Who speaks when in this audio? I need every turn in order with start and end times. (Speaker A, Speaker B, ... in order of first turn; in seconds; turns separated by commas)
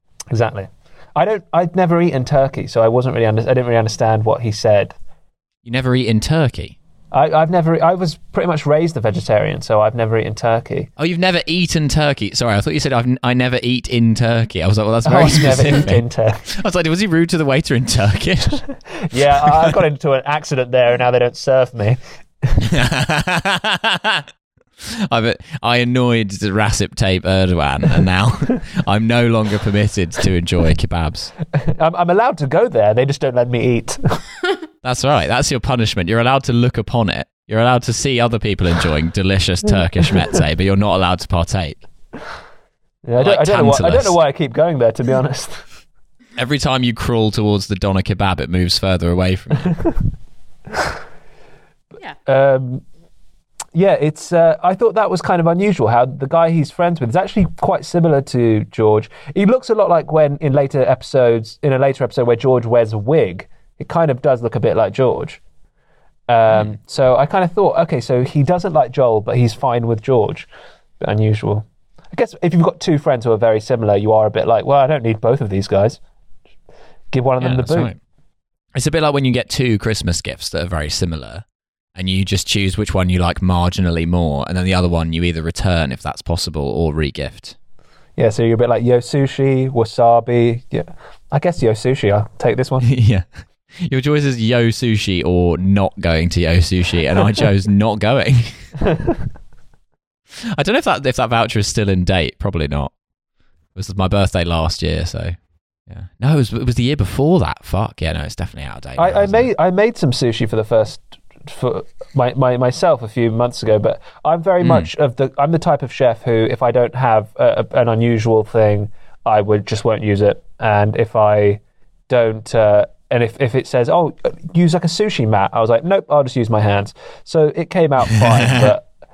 Speaker A: 0.3-5.0, Speaker B: 5.7-6.8, Speaker A: 7.1-10.9, Speaker B: 11.0-19.7, Speaker A: 15.1-16.4, Speaker A: 19.1-22.6, Speaker B: 22.6-24.3, Speaker B: 24.8-31.3, Speaker A: 31.6-34.2, Speaker B: 34.8-41.9, Speaker A: 43.0-45.7, Speaker B: 43.2-44.2, Speaker B: 46.4-49.9, Speaker A: 52.3-52.8, Speaker A: 53.7-65.4, Speaker A: 66.3-70.5, Speaker B: 66.5-66.8, Speaker A: 71.0-76.0, Speaker A: 77.1-77.9, Speaker B: 77.4-78.0, Speaker B: 78.8-81.4, Speaker B: 82.0-87.6, Speaker A: 88.2-92.9, Speaker B: 92.8-98.8, Speaker B: 100.5-102.9, Speaker B: 103.8-105.4, Speaker B: 105.9-109.5, Speaker A: 109.0-128.9, Speaker B: 114.6-114.9